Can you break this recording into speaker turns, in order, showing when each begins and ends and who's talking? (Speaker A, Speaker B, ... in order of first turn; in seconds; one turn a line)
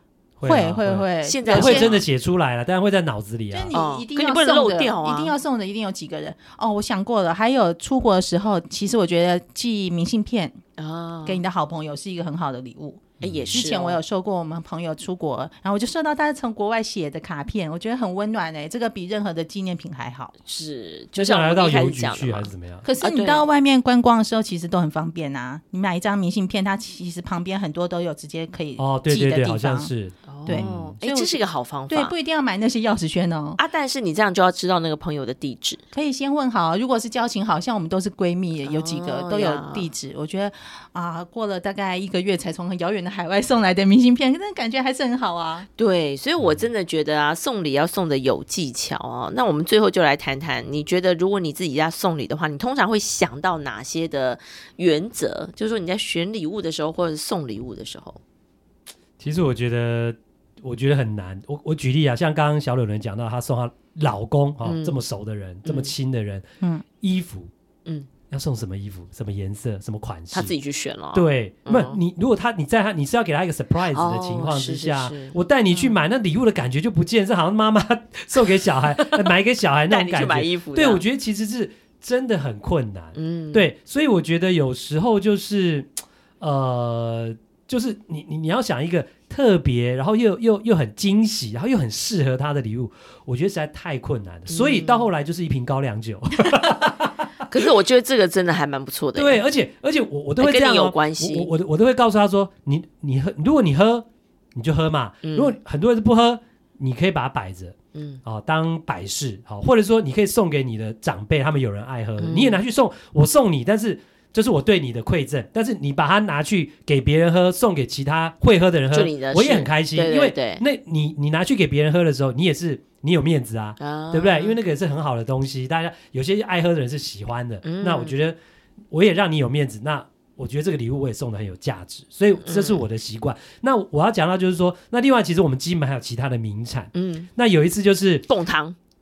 Speaker A: 0.4-3.7
Speaker B: 0.4-2.0
Speaker C: 1.2-2.0
Speaker B: 3.5-10.6
Speaker C: 3.7-5.4
Speaker C: 10.8-11.4
Speaker B: 11.3-20.3
Speaker A: 13.2-13.7
Speaker C: 13.2-14.0
Speaker C: 20.4-23.5
Speaker A: 21.1-22.8
Speaker B: 22.8-29.9
Speaker A: 28.8-30.9
Speaker C: 30.3-32.1
Speaker B: 30.5-33.6
Speaker C: 33.6-35.8
Speaker B: 35.9-45.7
Speaker C: 38.7-39.9
Speaker C: 45.8-58.2
Speaker A: 46.4-46.7
Speaker A: 59.2-66.4
Speaker C: 64.7-65.0
Speaker C: 65.7-65.9
Speaker A: 67.0-67.5
Speaker A: 68.3-70.5
Speaker C: 70.3-72.0
Speaker A: 71.1-97.5
Speaker C: 73.9-75.9
Speaker C: 78.8-79.3
Speaker C: 79.9-81.0
Speaker C: 83.2-83.7
Speaker C: 94.5-95.1
Speaker C: 97.5-99.4
Speaker A: 99.2-128.4
Speaker C: 100.4-101.5
Speaker C: 105.2-105.6
Speaker C: 107.9-108.2
Speaker C: 112.2-112.6
Speaker C: 118.9-120.6
Speaker C: 123.8-124.6
Speaker C: 127.6-128.2
Speaker A: 128.9-138.3
Speaker C: 132.4-132.8
Speaker C: 136.9-137.3
Speaker C: 138.3-138.8